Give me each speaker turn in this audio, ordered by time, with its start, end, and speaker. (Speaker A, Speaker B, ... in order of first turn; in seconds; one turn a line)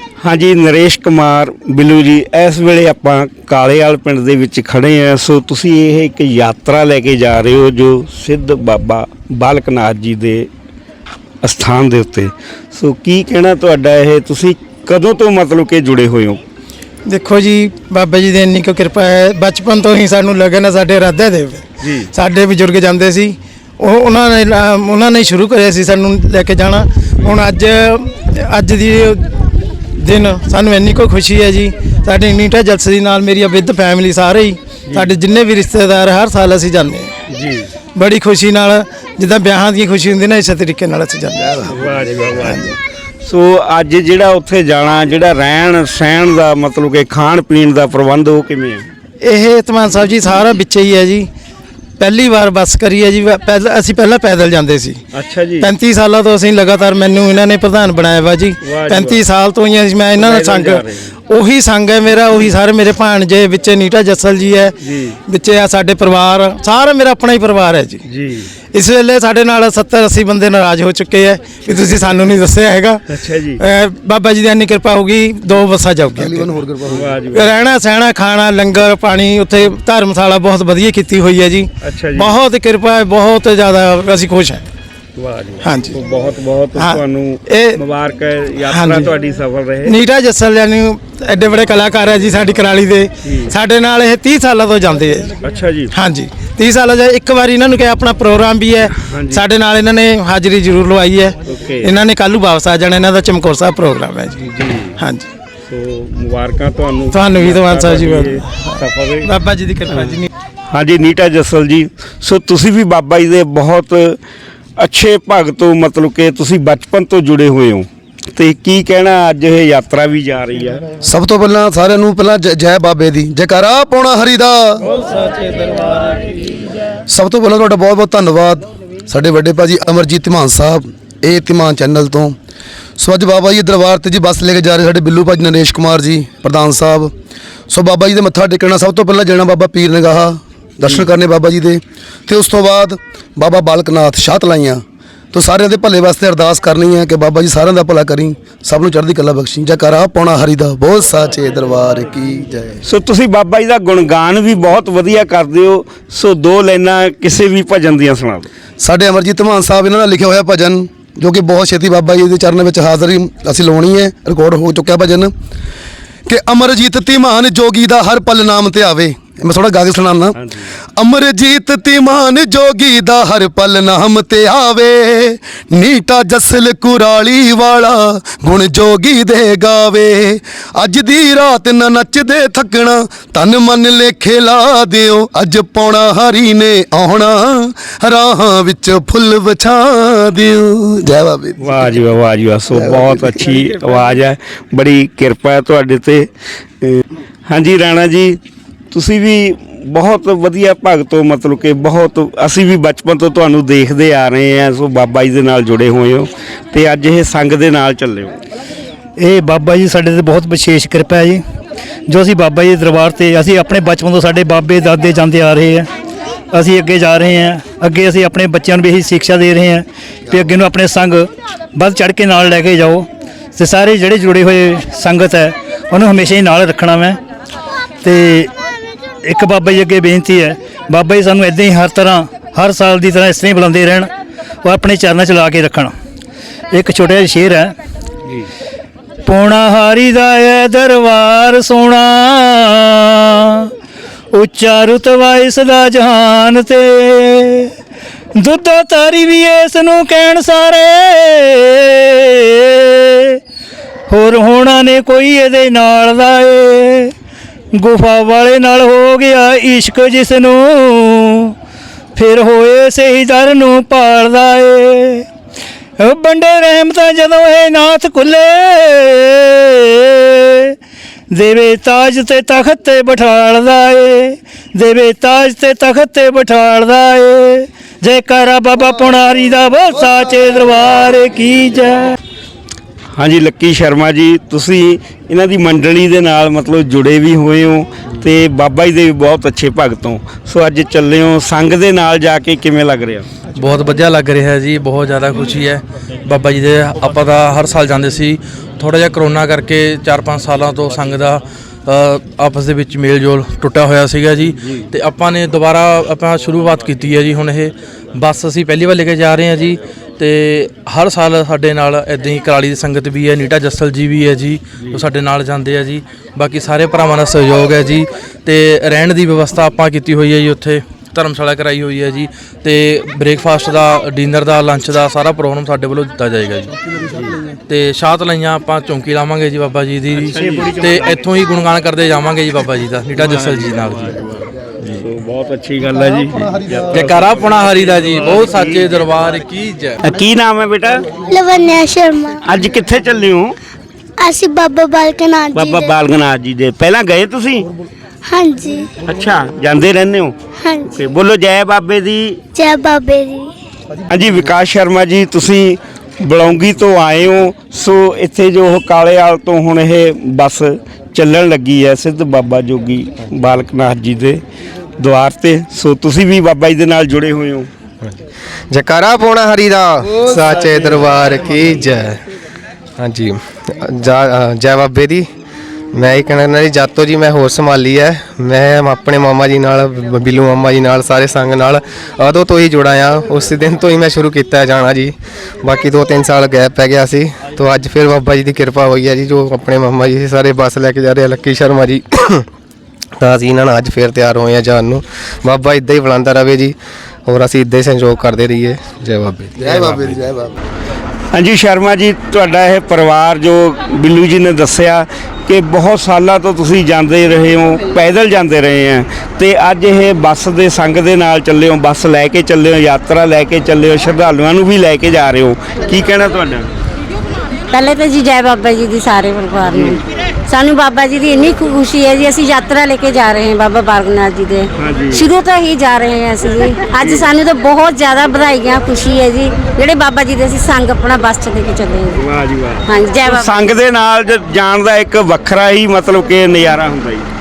Speaker A: 0.2-10.5
Speaker A: 11.4-16.4
Speaker B: 17.1-29.3
Speaker A: 21.8-22.1
Speaker B: 30.0-37.1
Speaker A: 34.9-35.2
Speaker A: 37.3-37.7
Speaker B: 38.0-41.7
Speaker A: 41.7-42.7
Speaker B: 42.4-42.7
Speaker A: 43.2-48.9
Speaker B: 49.2-51.3
Speaker B: 52.0-55.0
Speaker A: 55.1-55.7
Speaker B: 55.6-64.8
Speaker A: 58.6-59.2
Speaker A: 60.2-61.1
Speaker A: 64.8-65.2
Speaker B: 65.3-68.0
Speaker A: 68.1-68.5
Speaker B: 68.7-73.0
Speaker A: 73.1-73.6
Speaker B: 73.6-76.5
Speaker C: 76.2-77.0
Speaker A: 76.9-77.6
Speaker B: 77.3-84.7
Speaker A: 81.8-82.4
Speaker A: 85.2-90.0
Speaker B: 85.6-86.0
Speaker B: 86.8-87.8
Speaker B: 88.7-89.1
Speaker B: 89.8-95.3
Speaker A: 93.2-93.5
Speaker A: 95.4-95.9
Speaker B: 95.9-104.4
Speaker A: 99.0-99.5
Speaker A: 101.5-101.9
Speaker A: 104.4-104.9
Speaker B: 105.0-105.3
Speaker A: 105.7-109.3
Speaker B: 107.1-110.3
Speaker A: 109.9-110.2
Speaker A: 110.7-114.2
Speaker A: 114.8-120.8
Speaker C: 121.0-124.8
Speaker B: 125.3-126.1
Speaker C: 127.1-132.4
Speaker C: 133.0-137.1
Speaker C: 137.7-144.8
Speaker C: 145.3-152.8
Speaker A: 152.8-158.5
Speaker C: 158.8-165.3
Speaker C: 166.3-170.4
Speaker A: 170.4-170.7
Speaker C: 171.0-191.6
Speaker A: 191.6-196.3
Speaker C: 192.8-193.4
Speaker A: 196.8-198.4
Speaker A: 198.9-208.4
Speaker B: 209.2-211.4
Speaker B: 212.1-215.9
Speaker B: 216.5-227.2
Speaker B: 228.0-228.5
Speaker B: 229.2-234.1
Speaker B: 234.6-235.9
Speaker B: 236.7-237.7
Speaker B: 239.2-243.7
Speaker B: 244.3-247.7
Speaker B: 248.4-253.4
Speaker B: 254.1-257.1
Speaker B: 257.8-261.5
Speaker B: 262.2-265.3
Speaker B: 266.0-270.8
Speaker B: 271.3-282.1
Speaker A: 283.2-293.3
Speaker D: 293.6-326.7
Speaker D: 327.7-334.2
Speaker A: 330.3-331.2
Speaker A: 335.0-338.9
Speaker D: 336.9-340.0
Speaker A: 340.0-341.0
Speaker E: 341.3-342.4
Speaker A: 342.4-343.6
Speaker E: 344.2-345.9
Speaker A: 345.5-347.7
Speaker E: 348.3-348.9
Speaker A: 349.1-350.4
Speaker A: 350.9-352.4
Speaker E: 352.6-353.5
Speaker A: 354.1-364.4
Speaker A: 365.0-367.7
Speaker F: 368.7-372.2
Speaker F: 373.0-375.3
Speaker F: 375.9-392.4
Speaker F: 393.2-396.8
Speaker F: 397.3-400.2
Speaker A: 401.3-416.7
Speaker G: 417.7-432.2
Speaker A: 419.7-420.0
Speaker A: 424.8-425.2
Speaker A: 427.0-427.3
Speaker A: 432.2-437.3
Speaker G: 432.9-433.6